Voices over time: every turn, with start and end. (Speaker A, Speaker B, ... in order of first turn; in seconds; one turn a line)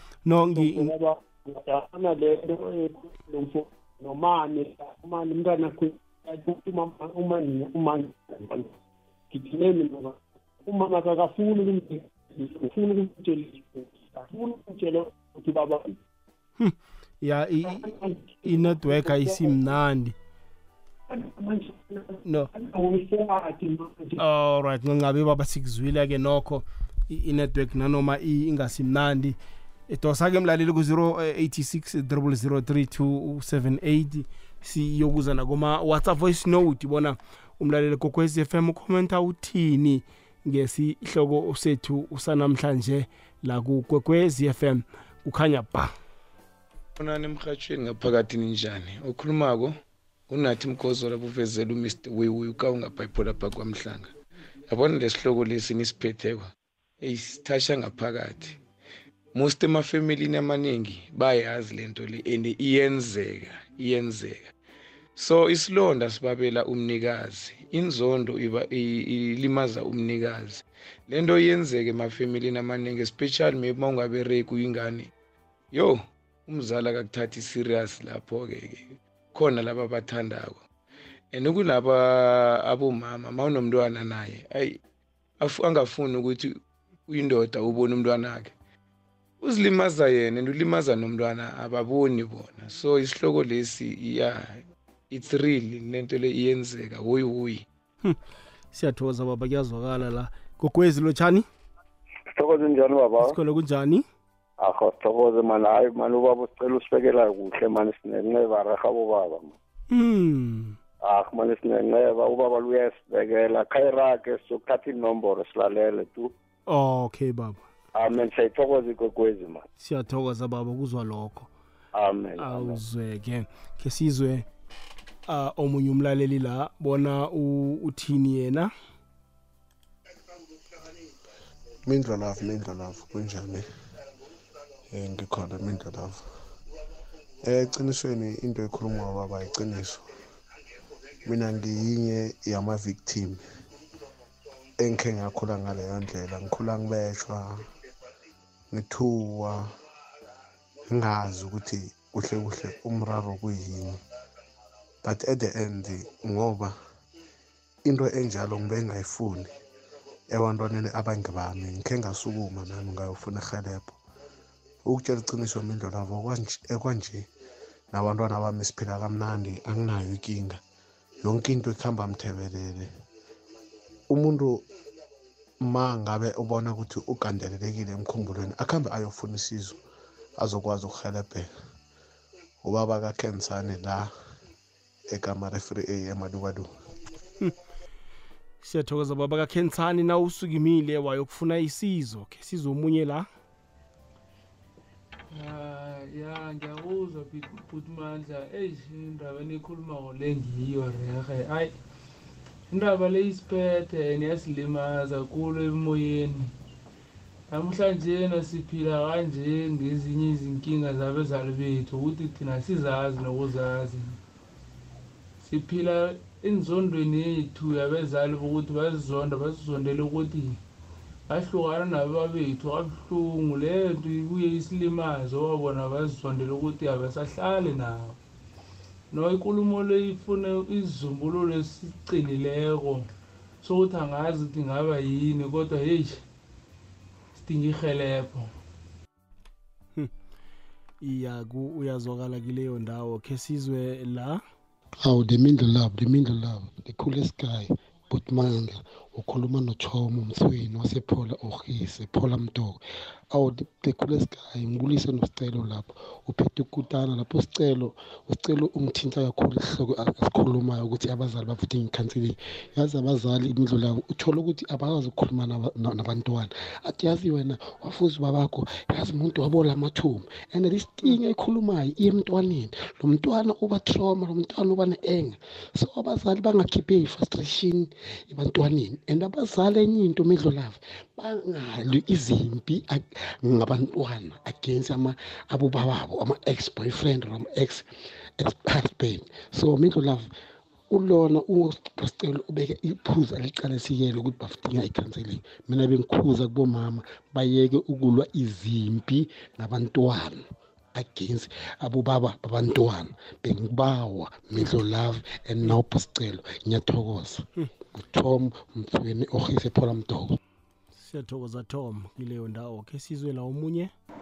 Speaker A: 0.3-0.9
Speaker B: 0.6-8.7
Speaker B: 9.3-16.0
Speaker A: 16.6-20.1
Speaker B: 17.7-19.6
Speaker B: 21.1-24.2
Speaker A: 24.2-29.4
Speaker A: 29.9-45.9
Speaker C: 47.0-49.8
Speaker C: 50.3-54.1
Speaker C: 54.7-58.6
Speaker C: 59.3-64.5
Speaker C: 65.2-75.1
Speaker C: 75.7-80.6
Speaker C: 81.3-84.8
Speaker C: 85.4-88.5
Speaker C: 89.4-97.7
Speaker A: 98.7-101.5
Speaker D: 102.4-103.4
Speaker A: 103.2-104.0
Speaker D: 104.6-109.5
Speaker A: 109.9-110.8
Speaker D: 111.0-116.3
Speaker A: 116.7-117.6
Speaker D: 118.0-119.6
Speaker A: 119.8-121.5
Speaker D: 121.9-122.8
Speaker A: 122.4-124.5
Speaker A: 125.3-128.7
Speaker E: 131.9-133.7
Speaker E: 134.9-136.2
Speaker E: 137.4-140.1
Speaker E: 141.2-143.4
Speaker E: 144.8-147.7
Speaker E: 148.7-149.8
Speaker E: 150.8-154.0
Speaker E: 155.0-156.8
Speaker E: 157.8-159.5
Speaker E: 160.3-164.0
Speaker E: 164.8-167.3
Speaker E: 167.9-170.6
Speaker E: 171.2-172.9
Speaker E: 174.1-174.7
Speaker E: 175.6-179.8
Speaker E: 180.4-181.5
Speaker E: 182.6-184.1
Speaker E: 185.1-186.7
Speaker A: 188.6-193.3
Speaker F: 195.3-201.7
Speaker F: 202.7-206.5
Speaker F: 207.5-214.2
Speaker F: 215.4-220.6
Speaker F: 221.3-228.2
Speaker F: 229.1-233.1
Speaker F: 233.6-236.2
Speaker F: 237.3-238.5
Speaker A: 241.0-244.4
Speaker G: 245.0-290.3
Speaker G: 290.9-310.4
Speaker A: 311.0-313.9